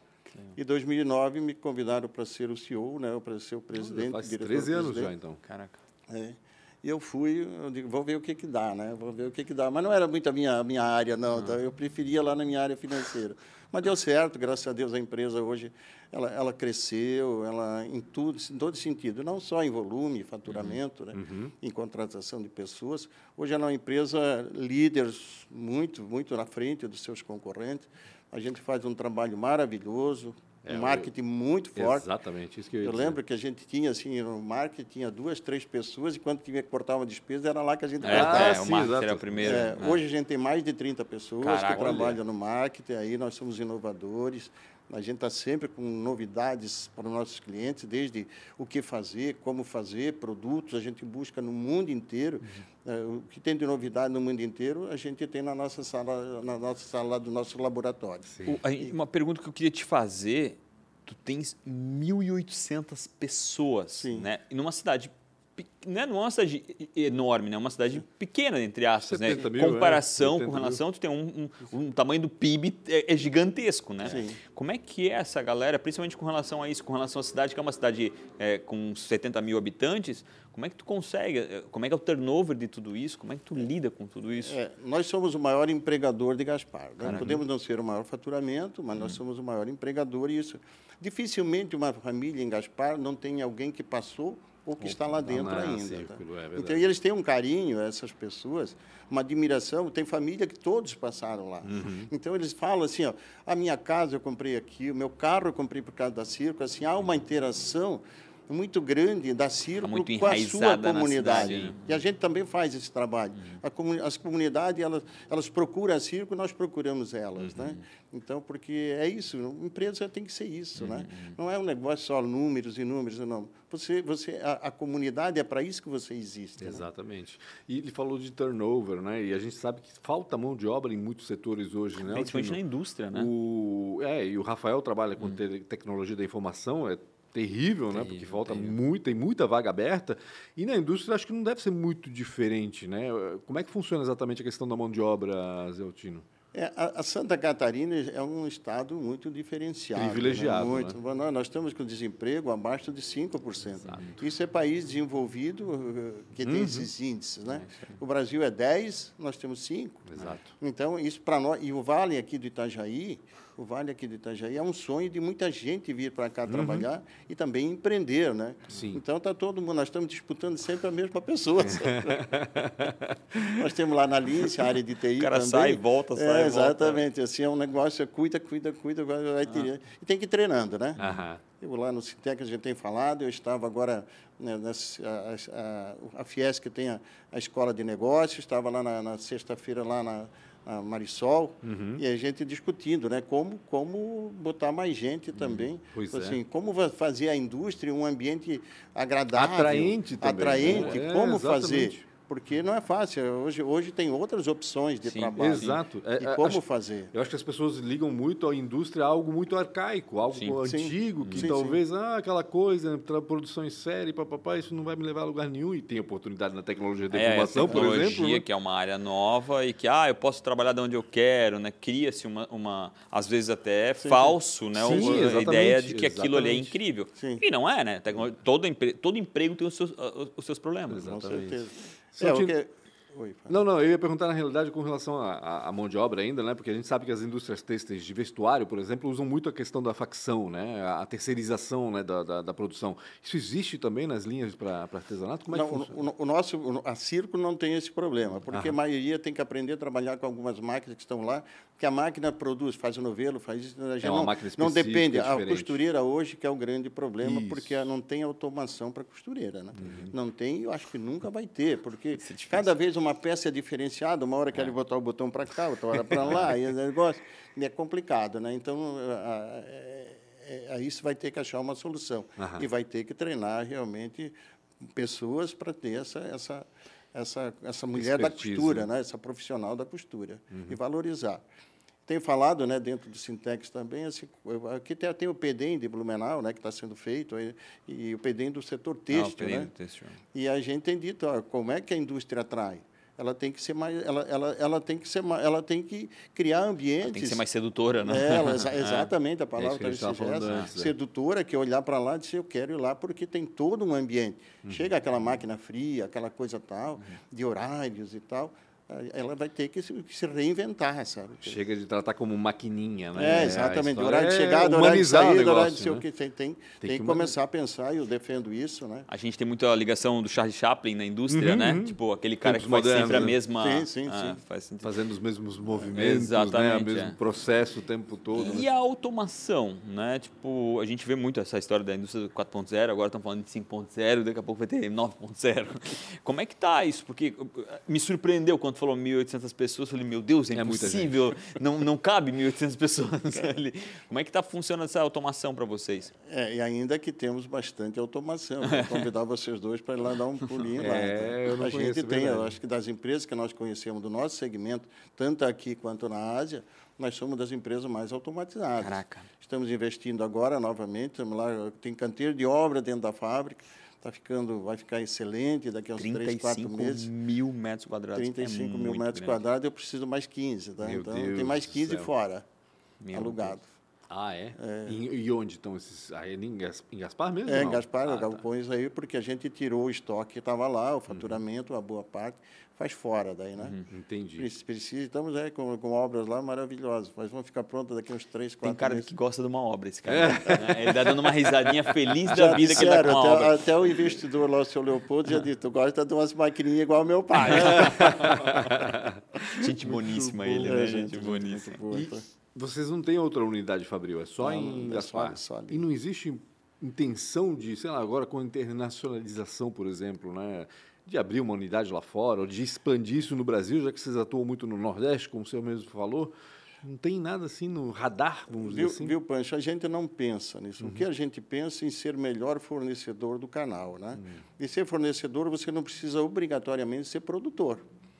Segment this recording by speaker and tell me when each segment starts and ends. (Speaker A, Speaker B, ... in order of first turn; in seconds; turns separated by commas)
Speaker A: 0.6-5.1, Speaker B: 3.7-5.4, Speaker C: 5.4-5.8, Speaker A: 6.1-32.1, Speaker C: 20.5-20.8, Speaker B: 21.1-21.5, Speaker B: 30.6-31.1, Speaker B: 31.7-33.2, Speaker A: 32.8-38.9, Speaker C: 38.0-40.0, Speaker B: 38.1-39.7, Speaker A: 39.4-58.9, Speaker C: 41.4-42.2, Speaker B: 41.7-42.1, Speaker B: 58.3-58.6, Speaker C: 58.4-84.5, Speaker A: 63.9-64.3, Speaker B: 69.0-70.8, Speaker A: 74.0-74.4, Speaker A: 84.4-126.8, Speaker C: 87.0-87.4, Speaker B: 87.1-87.4, Speaker B: 95.2-96.9, Speaker B: 101.6-102.1, Speaker C: 109.8-111.8, Speaker C: 117.4-117.8, Speaker C: 120.8-121.3, Speaker B: 126.6-132.6, Speaker C: 132.0-133.3, Speaker B: 133.1-146.2, Speaker C: 137.9-138.8, Speaker A: 146.5-172.7, Speaker B: 149.9-151.0, Speaker B: 153.8-154.2, Speaker B: 156.4-156.9, Speaker C: 157.6-157.9, Speaker B: 160.1-160.5, Speaker B: 166.5-166.8, Speaker B: 168.7-169.0, Speaker B: 171.6-173.4, Speaker A: 173.4-181.0, Speaker C: 175.2-177.0, Speaker C: 181.0-181.2, Speaker B: 181.0-181.4, Speaker A: 181.6-207.1, Speaker B: 191.6-192.0, Speaker B: 195.9-196.4, Speaker B: 199.3-202.0, Speaker C: 200.7-201.0, Speaker C: 205.1-205.8, Speaker B: 205.4-218.4, Speaker C: 210.3-210.6, Speaker A: 210.6-211.8, Speaker C: 211.2-211.5, Speaker C: 217.1-231.1, Speaker A: 224.0-225.2, Speaker B: 224.7-226.8, Speaker A: 227.2-227.4, Speaker B: 230.9-231.6, Speaker A: 231.0-233.6, Speaker B: 232.2-232.5, Speaker B: 233.5-245.9, Speaker A: 245.5-281.4, Speaker B: 248.5-248.8, Speaker B: 254.0-255.8, Speaker B: 257.2-257.8, Speaker B: 259.8-260.1, Speaker C: 262.2-262.7, Speaker B: 272.4-272.7, Speaker B: 277.9-278.9, Speaker B: 280.5-280.8, Speaker A: 282.1-289.7, Speaker C: 289.1-290.2, Speaker A: 290.3-297.4, Speaker C: 297.0-299.1, Speaker A: 298.0-311.6, Speaker B: 299.6-300.9, Speaker C: 300.4-300.7, Speaker B: 304.6-304.9, Speaker B: 311.4-316.0, Speaker A: 313.1-319.1, Speaker B: 316.8-317.4, Speaker C: 319.1-324.9, Speaker B: 321.3-323.4, Speaker A: 323.1-324.4, Speaker B: 324.8-328.7, Speaker C: 325.8-327.2, Speaker C: 328.3-346.1, Speaker B: 340.5-341.2, Speaker A: 346.2-367.1, Speaker C: 348.6-349.1, Speaker B: 350.8-352.5, Speaker C: 358.8-359.3, Speaker C: 366.0-369.4, Speaker A: 368.1-372.4, Speaker B: 370.8-372.1, Speaker C: 373.0-373.6, Speaker A: 373.1-373.7, Speaker B: 374.1-378.4, Speaker A: 374.6-375.0, Speaker A: 377.4-383.8, Speaker B: 381.1-381.4, Speaker C: 383.6-383.8, Speaker B: 383.9-384.5, Speaker A: 384.4-389.1, Speaker C: 388.6-393.6, Speaker B: 390.1-393.0, Speaker A: 392.3-398.6, Speaker B: 397.4-399.2, Speaker C: 397.4-398.9, Speaker C: 399.4-401.8, Speaker B: 399.8-400.6, Speaker A: 400.2-402.2, Speaker B: 401.9-419.2, Speaker A: 404.4-405.8, Speaker A: 418.6-427.8, Speaker B: 420.8-421.1, Speaker B: 424.1-424.4